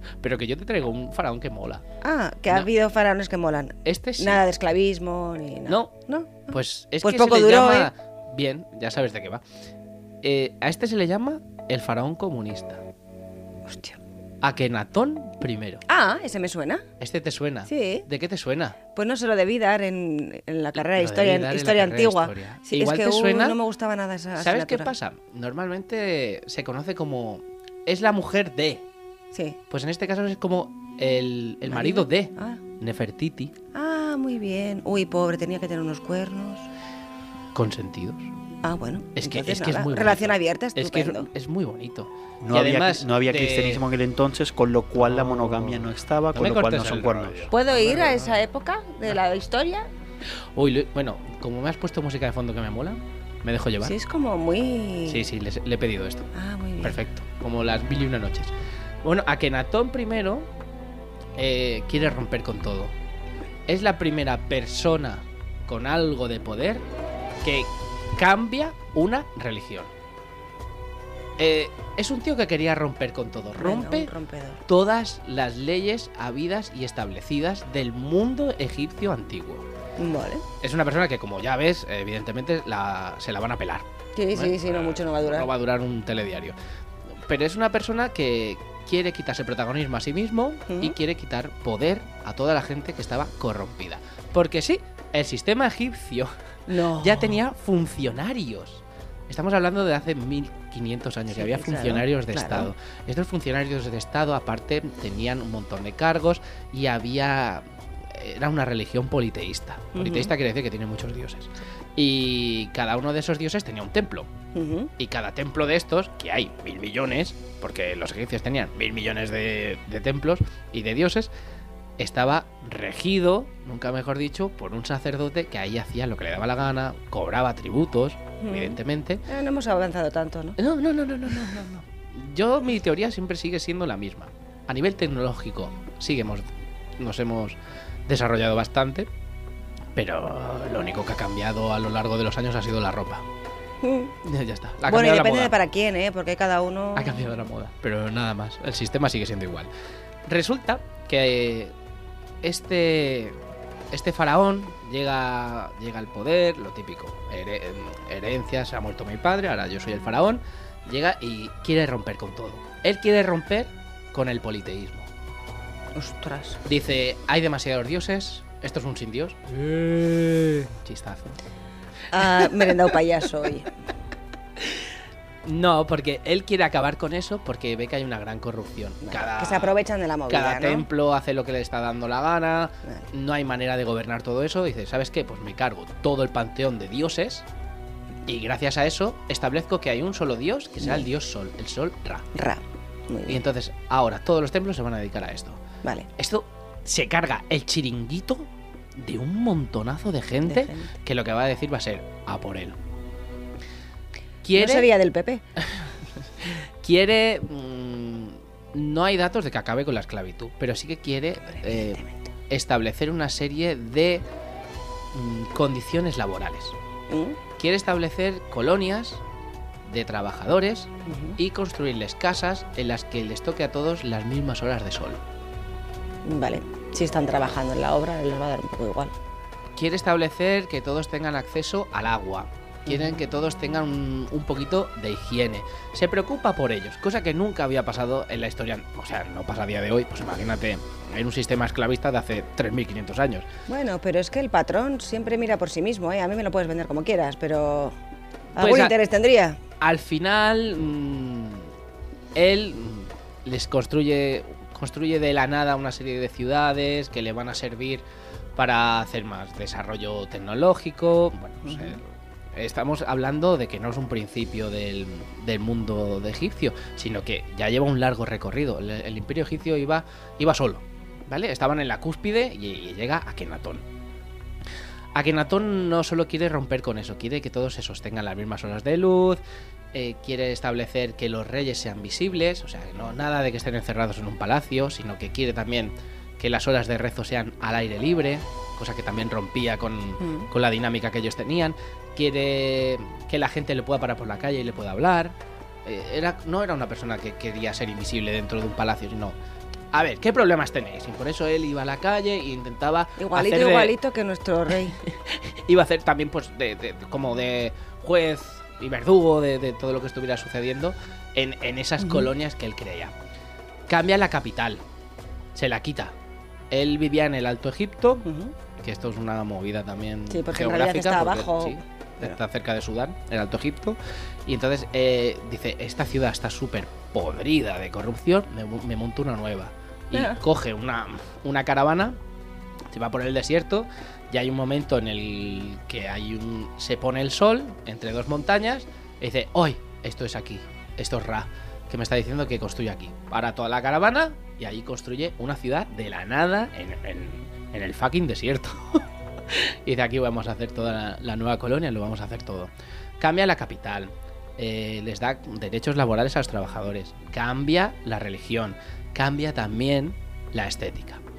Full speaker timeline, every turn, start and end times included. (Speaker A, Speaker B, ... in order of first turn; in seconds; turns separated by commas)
Speaker A: 0.2-1.8, Speaker B: 2.0-7.9, Speaker A: 3.8-4.4, Speaker A: 6.4-9.4, Speaker A: 10.2-12.8, Speaker B: 13.7-14.0, Speaker A: 14.4-15.8, Speaker B: 15.9-16.8, Speaker A: 17.0-18.8, Speaker B: 17.7-18.0, Speaker B: 18.9-24.9, Speaker A: 20.9-23.6, Speaker A: 24.4-28.8, Speaker B: 29.3-29.6, Speaker A: 29.7-33.5, Speaker B: 31.6-32.6, Speaker B: 33.7-36.7, Speaker A: 37.5-38.3, Speaker B: 38.6-41.3, Speaker A: 39.2-43.8, Speaker C: 42.4-47.5, Speaker A: 45.0-48.4, Speaker B: 47.5-49.9, Speaker A: 50.5-53.9, Speaker B: 53.8-55.3, Speaker A: 55.1-56.3, Speaker B: 56.3-57.0, Speaker A: 56.8-60.5, Speaker A: 61.4-62.9, Speaker A: 63.7-66.8, Speaker A: 67.4-69.9, Speaker A: 71.4-74.1, Speaker B: 73.6-74.6, Speaker A: 74.7-79.7, Speaker B: 80.0-80.4, Speaker A: 80.6-86.5, Speaker B: 84.2-85.5, Speaker A: 87.3-114.3, Speaker B: 90.7-91.0, Speaker B: 96.7-97.3, Speaker B: 101.3-102.7, Speaker B: 109.9-110.3, Speaker B: 114.5-114.9, Speaker A: 115.0-121.3, Speaker A: 122.0-129.2, Speaker B: 128.4-130.6, Speaker A: 130.6-136.4, Speaker A: 137.0-139.1, Speaker A: 139.9-143.2, Speaker B: 143.8-144.1, Speaker A: 144.2-145.5, Speaker B: 144.8-147.3, Speaker A: 146.9-149.7, Speaker A: 150.2-151.7, Speaker A: 152.4-153.4, Speaker A: 153.9-165.1, Speaker B: 165.9-166.6, Speaker A: 166.7-171.4, Speaker B: 172.1-173.7, Speaker A: 172.2-172.8, Speaker A: 175.4-179.8, Speaker B: 179.0-180.9, Speaker A: 180.3-187.4, Speaker A: 188.2-192.3, Speaker B: 190.8-191.1, Speaker B: 192.3-193.4, Speaker A: 193.3-195.6, Speaker A: 196.2-202.8, Speaker B: 200.4-200.9, Speaker A: 204.4-204.9, Speaker B: 204.5-205.4, Speaker A: 206.4-214.2, Speaker B: 211.5-212.2, Speaker A: 215.1-216.7, Speaker B: 217.1-217.4, Speaker A: 217.6-219.2, Speaker A: 219.8-225.2, Speaker B: 221.1-221.4, Speaker B: 226.2-229.1, Speaker A: 229.8-243.5, Speaker B: 243.7-247.9, Speaker B: 248.6-249.6, Speaker A: 248.6-248.9, Speaker A: 249.8-251.7, Speaker A: 252.3-258.0, Speaker A: 258.6-273.8, Speaker B: 261.6-262.0, Speaker A: 275.1-279.4, Speaker A: 279.9-299.3, Speaker B: 290.2-290.5, Speaker A: 299.9-303.9, Speaker B: 303.2-305.0, Speaker A: 305.0-313.1, Speaker B: 312.0-312.3, Speaker A: 313.9-314.8, Speaker A: 315.5-316.1, Speaker A: 316.7-318.2, Speaker B: 318.2-318.5, Speaker A: 318.8-332.2, Speaker B: 320.3-322.4, Speaker B: 330.1-330.4, Speaker A: 332.9-361.2